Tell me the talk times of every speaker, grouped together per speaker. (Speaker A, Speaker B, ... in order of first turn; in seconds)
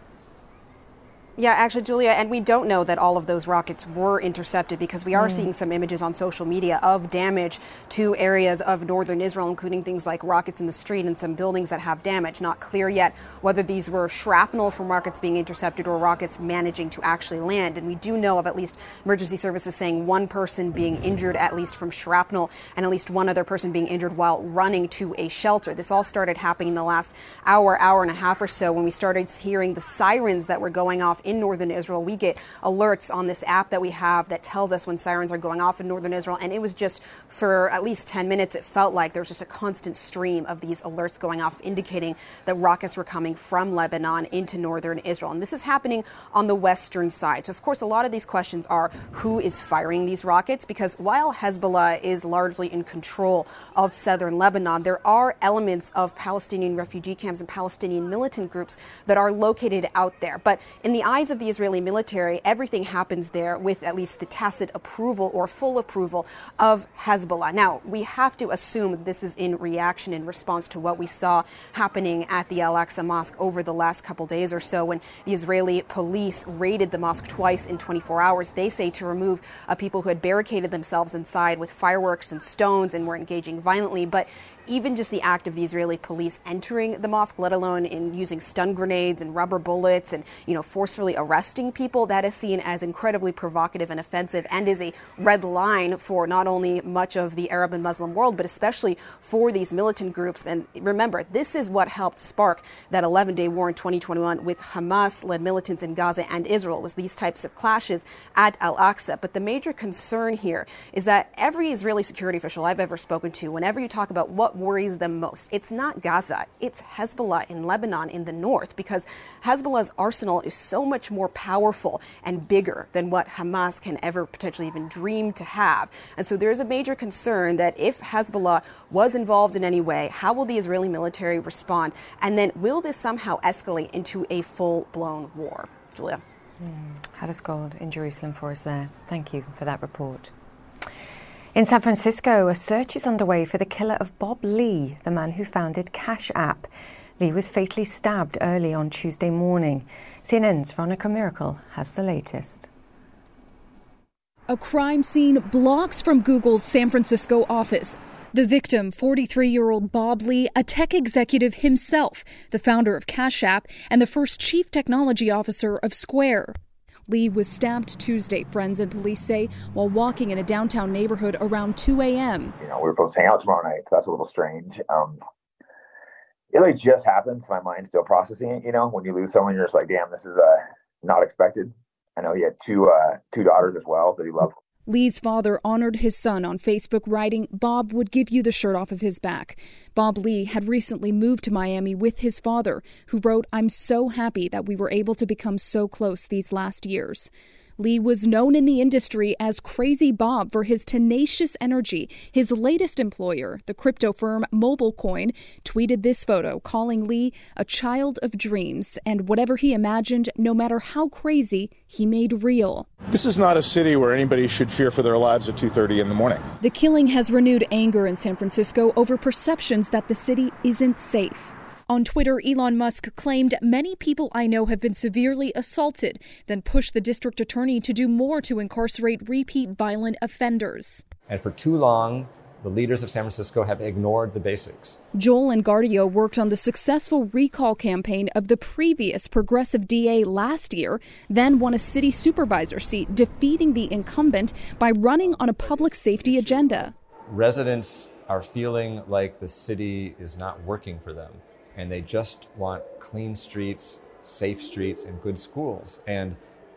Speaker A: 1.4-136.2
Speaker B: 5.1-5.5, 136.6-140.3, 141.5-146.7, 147.2-152.7
Speaker C: 154.5-166.6, 167.1-172.6, 184.9-212.9, 216.6-231.1, 235.1-246.9
Speaker D: 172.6-175.2, 176.5-184.5
Speaker E: 213.1-216.5
Speaker F: 231.3-235.0, 247.3-256.4